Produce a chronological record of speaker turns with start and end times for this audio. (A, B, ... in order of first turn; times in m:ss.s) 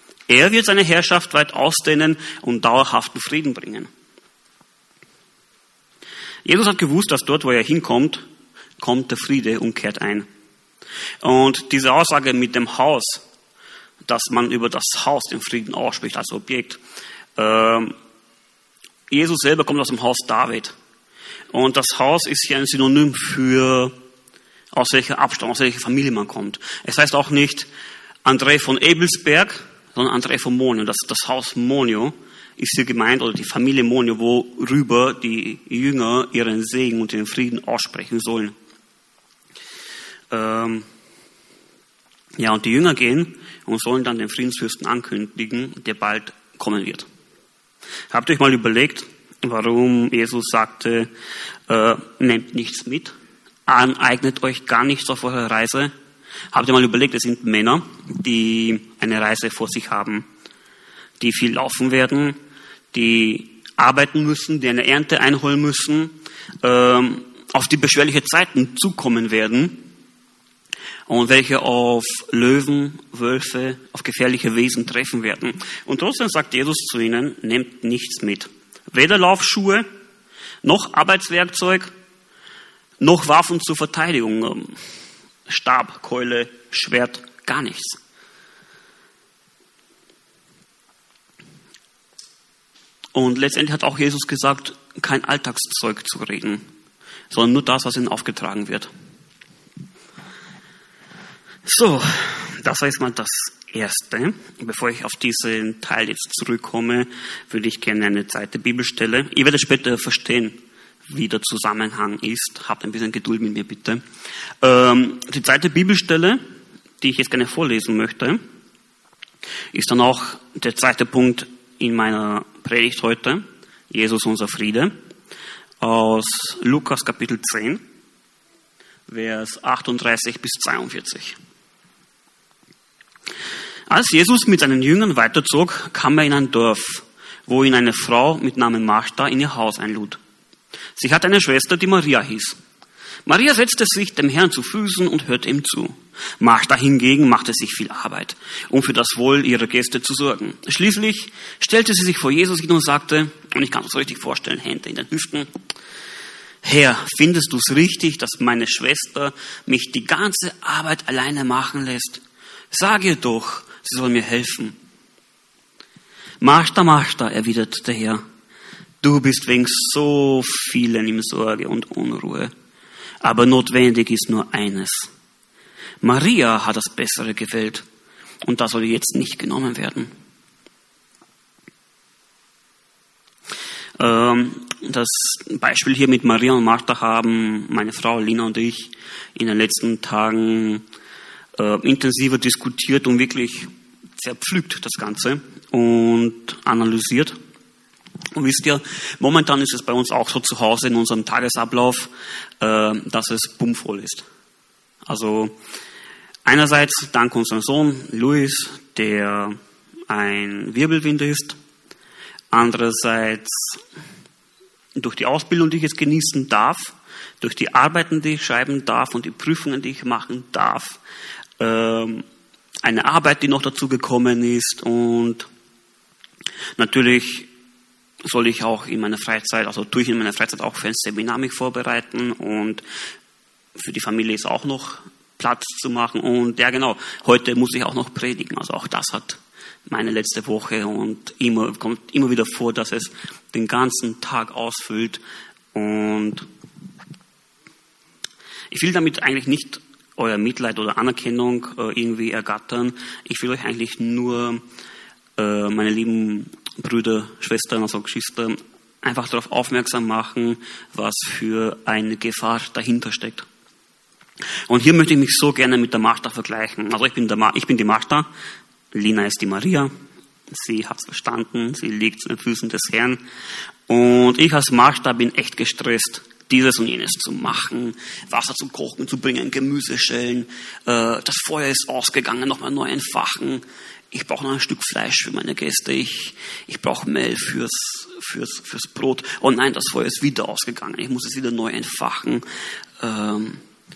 0:00.3-0:03.9 A
0:06.4-0:08.2 A
0:08.8-0:10.3 A
0:11.2-0:13.2 A
0:14.1-0:16.8 A
0:17.4-0:17.9 A
0:19.1-0:20.7 A
0:21.5-0:23.9 A
0:24.7-0:27.7 A
0:28.2-0:38.5 A
0:40.3-0:40.9 A
0:42.4-0:47.1 A
0:48.1-0:51.1 A
0:51.7-0:53.1 A
0:53.7-0:55.9 A
0:56.5-1:00.3 A
1:01.2-1:02.4 A
1:02.9-1:09.9 A
1:11.1-1:19.9 A
1:20.6-1:21.9 A
1:23.0-1:24.8 A
1:25.5-1:28.0 A
1:33.2-1:36.7 A
1:37.3-1:38.9 A
1:41.6-1:54.0 A
1:54.6-1:56.4 A
1:57.0-1:58.4 A
1:59.7-2:05.0 A
2:05.8-2:07.8 A
2:09.1-2:11.4 A
2:13.9-2:20.2 A
2:21.0-2:22.6 A
2:23.3-2:35.5 A
2:36.6-2:44.8 A
2:46.4-2:48.2 A
2:49.0-2:52.5 A
2:53.2-2:55.1 A
2:56.0-2:57.9 A
2:58.4-3:00.1 A
3:04.0-3:10.8 A
3:11.6-3:17.4 A
3:18.3-3:24.3 A
3:25.1-3:25.6 A
3:26.4-3:29.6 A
3:30.1-3:31.6 A
3:32.5-3:33.8 A
3:35.0-3:41.0 A
3:41.6-3:42.2 A
3:42.8-3:45.5 A
3:46.8-3:47.5 A
3:48.2-3:52.8 A
3:53.8-4:05.2 A
4:05.7-4:06.5 A
4:08.7-4:14.6 A
4:15.4-4:23.5 A
4:24.7-4:28.3 A
4:28.9-4:29.9 A
4:30.5-4:33.2 A
4:33.9-4:52.4 A
4:53.0-4:53.6 A